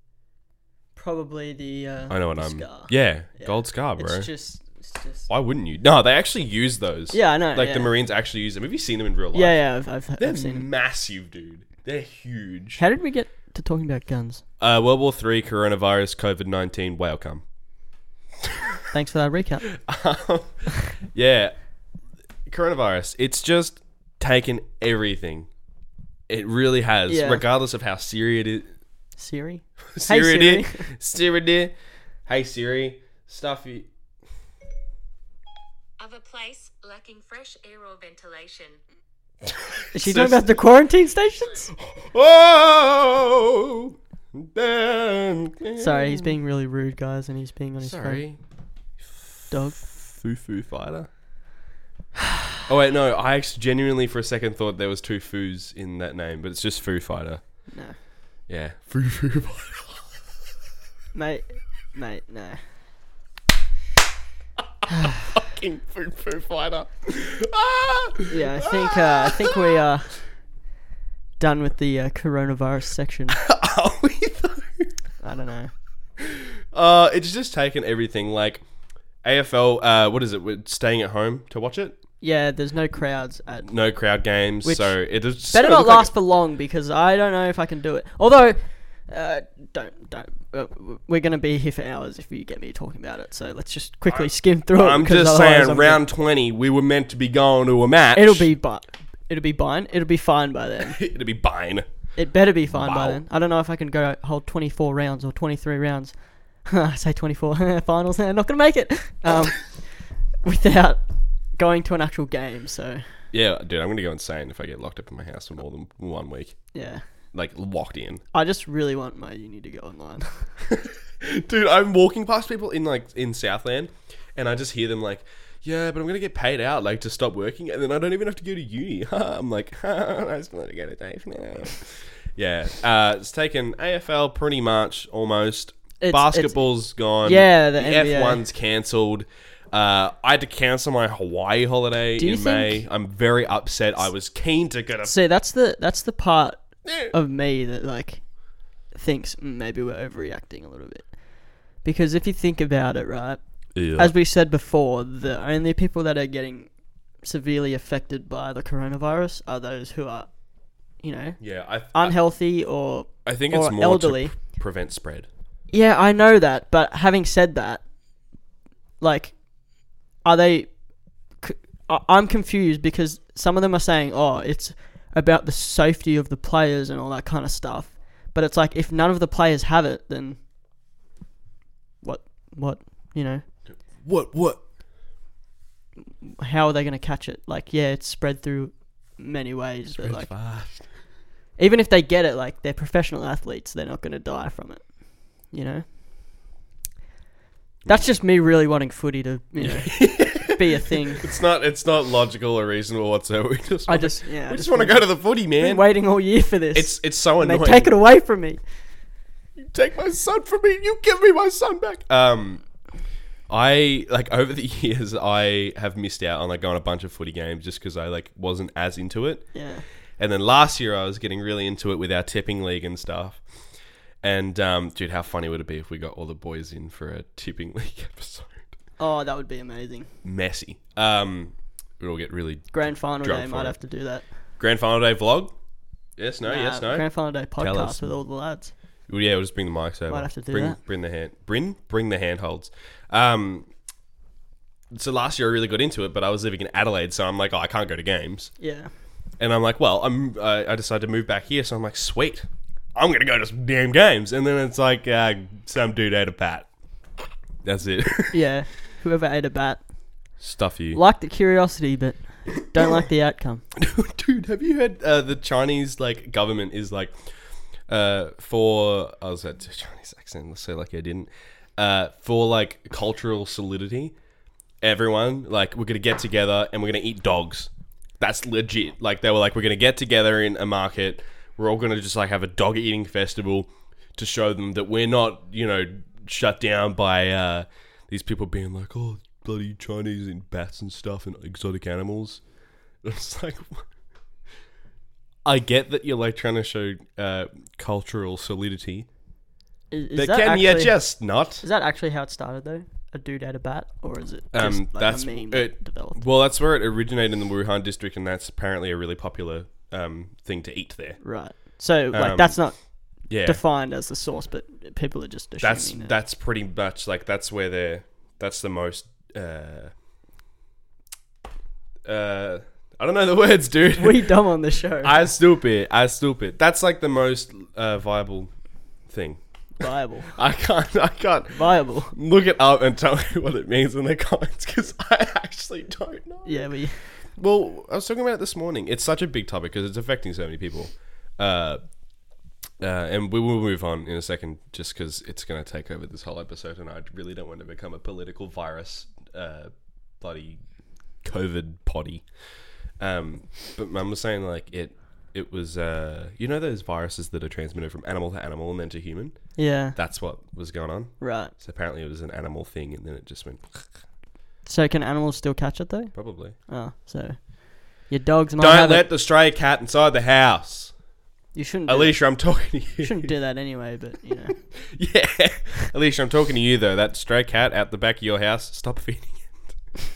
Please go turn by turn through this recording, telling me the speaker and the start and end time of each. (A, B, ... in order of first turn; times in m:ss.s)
0:01.0-0:05.3 A
0:02.1-0:04.3 B
0:05.3-0:09.6 B
0:07.1-0:07.9 A
0:09.3-0:10.7 A
0:10.2-0:12.8 B
0:12.8-0:14.4 A
0:14.6-0:17.4 B
0:18.9-0:19.7 A
0:19.7-0:21.6 B
0:22.5-0:25.5 B
0:26.3-0:28.7 B
0:27.1-0:27.4 A
0:29.2-0:30.9 A
0:29.9-0:31.7 B
0:32.2-0:33.9 B
0:36.0-0:38.8 C
0:39.4-0:40.6 B
0:39.9-0:41.7 A
0:41.8-0:46.3 B
0:45.8-0:48.2 A
0:47.8-0:48.4 B
0:49.0-0:51.1 B
0:49.5-0:49.8 A
0:52.7-0:57.7 B
0:57.7-0:58.0 A
0:58.5-1:00.1 B
1:01.1-1:02.6 A
1:05.0-1:09.8 B
1:08.3-1:10.2 A
1:11.4-1:13.4 A
1:13.4-1:14.9 B
1:15.2-1:15.7 A
1:16.2-1:18.6 B
1:19.2-1:22.0 B
1:22.2-1:23.7 A
1:23.6-1:26.1 B
1:24.6-1:25.0 A
1:25.5-1:36.0 A
1:34.1-1:38.5 B
1:38.1-1:41.0 A
1:40.8-1:42.1 B
1:42.1-1:51.0 A
1:42.7-1:43.2 B
1:51.5-1:53.2 A
1:53.3-1:56.7 B
1:56.7-1:57.0 A
1:57.3-1:58.2 B
1:58.3-2:00.5 A
2:00.7-2:25.1 B
2:16.0-2:16.6 A
2:17.2-2:18.4 A
2:22.2-2:22.8 A
2:25.0-2:44.4 A
2:26.8-2:27.1 B
2:33.7-2:34.1 B
2:41.4-2:42.2 B
2:43.2-2:45.3 B
2:45.7-2:47.9 A
2:49.0-3:00.4 A
3:02.0-3:03.4 A
3:03.7-3:04.6 B
3:06.2-3:10.3 A
3:09.9-3:10.9 B
3:11.6-3:15.9 A
3:17.8-3:21.3 A
3:19.6-3:26.0 B
3:23.9-3:28.6 A
3:26.7-3:27.9 B
3:29.6-3:32.6 B
3:33.5-3:39.6 B
3:39.5-3:39.8 A
3:40.2-3:43.4 B
3:44.2-3:48.7 B
3:49.0-3:50.1 A
3:50.2-3:53.8 B
3:52.7-3:54.3 A
3:54.5-3:55.5 B
3:56.2-3:58.1 B
3:56.4-3:58.7 A
3:59.1-4:03.7 B
4:00.1-4:00.8 A
4:04.9-4:08.5 B
4:08.6-4:08.9 A
4:09.4-4:16.7 B
4:17.6-4:18.4 B
4:18.3-4:19.8 A
4:20.4-4:21.0 B
4:20.9-4:23.6 A
4:23.8-4:34.1 B
4:34.8-4:52.4 B
4:53.0-4:53.8 B
4:55.4-4:59.1 B
4:59.9-5:01.0 A
5:00.2-5:01.6 B
5:01.6-5:06.2 A
5:04.5-5:11.2 B
5:11.2-5:16.1 A
5:12.1-5:13.6 B
5:15.6-5:19.9 B
5:22.0-5:24.3 B
5:24.0-5:25.2 A
5:25.0-5:28.5 B
5:29.0-5:41.8 B
5:29.8-5:30.3 A
5:31.5-5:32.1 A
5:36.4-5:37.0 A
5:42.8-5:50.6 B
5:51.1-5:52.3 B
5:53.0-6:03.9 B
5:59.6-6:00.0 A
6:01.2-6:01.5 A
6:04.6-6:09.0 A
6:06.1-6:06.6 B
6:08.6-6:11.0 B
6:11.5-6:14.6 A
6:11.9-6:13.3 B
6:14.8-6:19.7 B